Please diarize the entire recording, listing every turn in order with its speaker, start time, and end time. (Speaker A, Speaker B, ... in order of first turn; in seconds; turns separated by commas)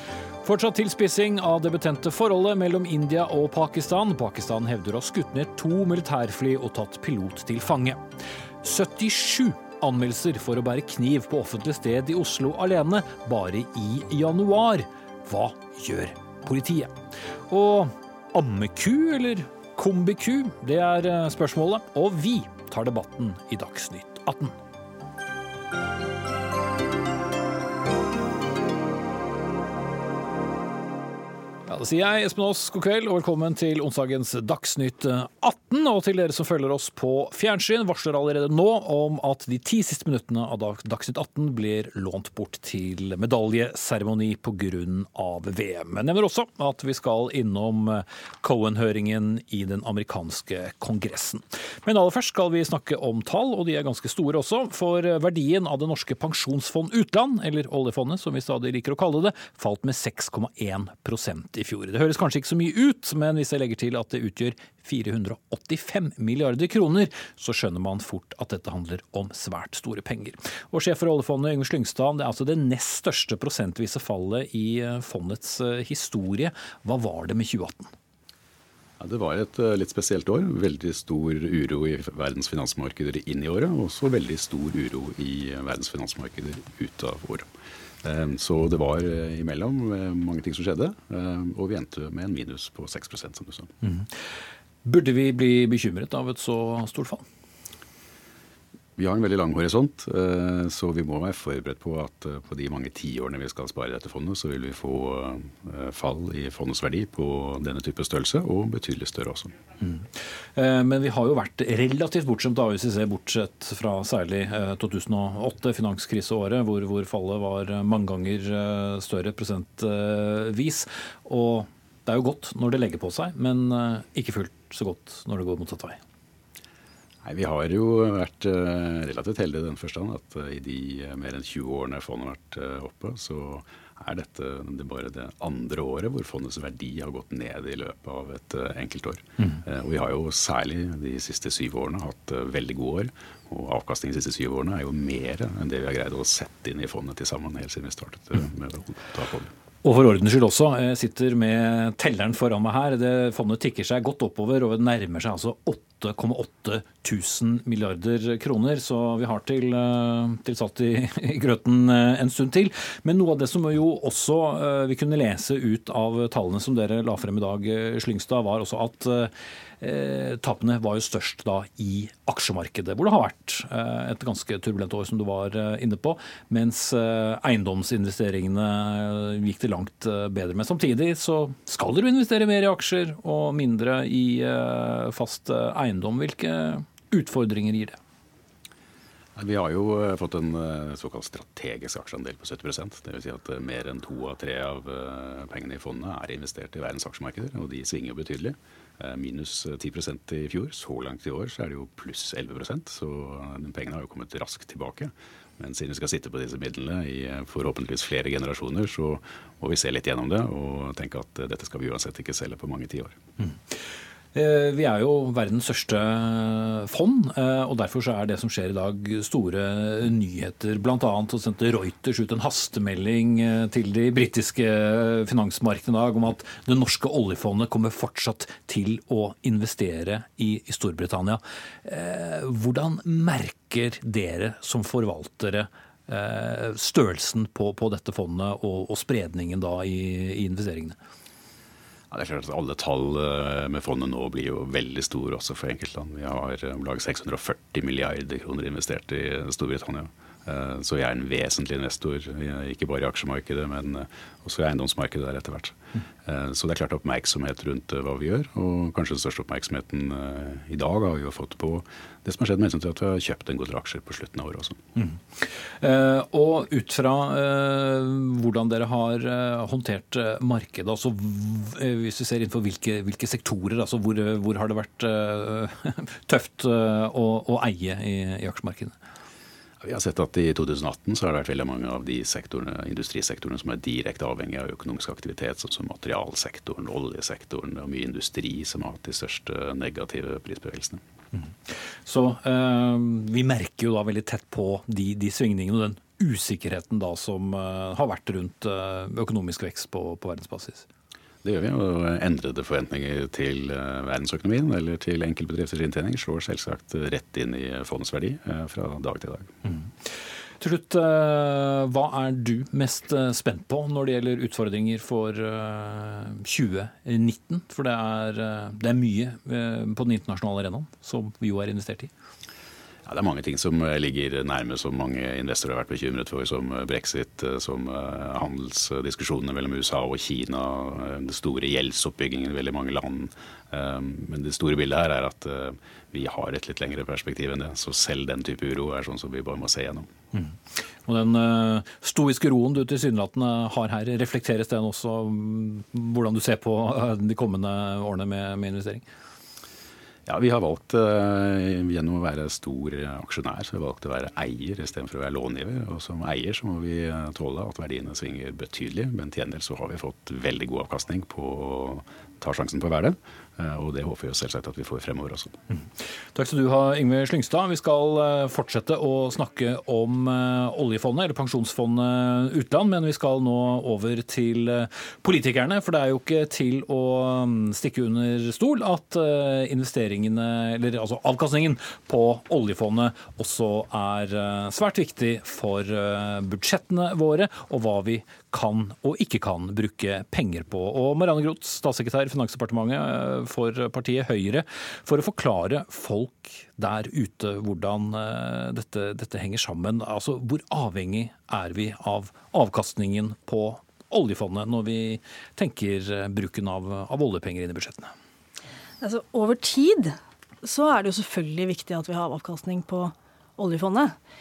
Speaker A: 0.4-8.0, Speaker A: 8.6-16.9, Speaker A: 17.5-24.6, Speaker A: 31.7-77.9, Speaker B: 79.0-87.5, Speaker B: 88.0-93.7, Speaker A: 93.8-94.1, Speaker A: 94.8-97.2, Speaker B: 99.0-109.6, Speaker A: 109.8-126.0, Speaker B: 127.2-149.5, Speaker A: 149.8-188.0, Speaker B: 189.3-213.2, Speaker A: 213.4-213.8, Speaker A: 214.3-241.0, Speaker B: 242.1-264.8, Speaker A: 264.9-278.9, Speaker B: 279.8-291.0, Speaker A: 291.7-300.9, Speaker B: 301.4-309.5, Speaker A: 309.7-322.1, Speaker B: 323.0-340.1, Speaker A: 340.3-349.0, Speaker B: 350.2-365.6, Speaker A: 366.3-408.1, Speaker C: 409.0-414.1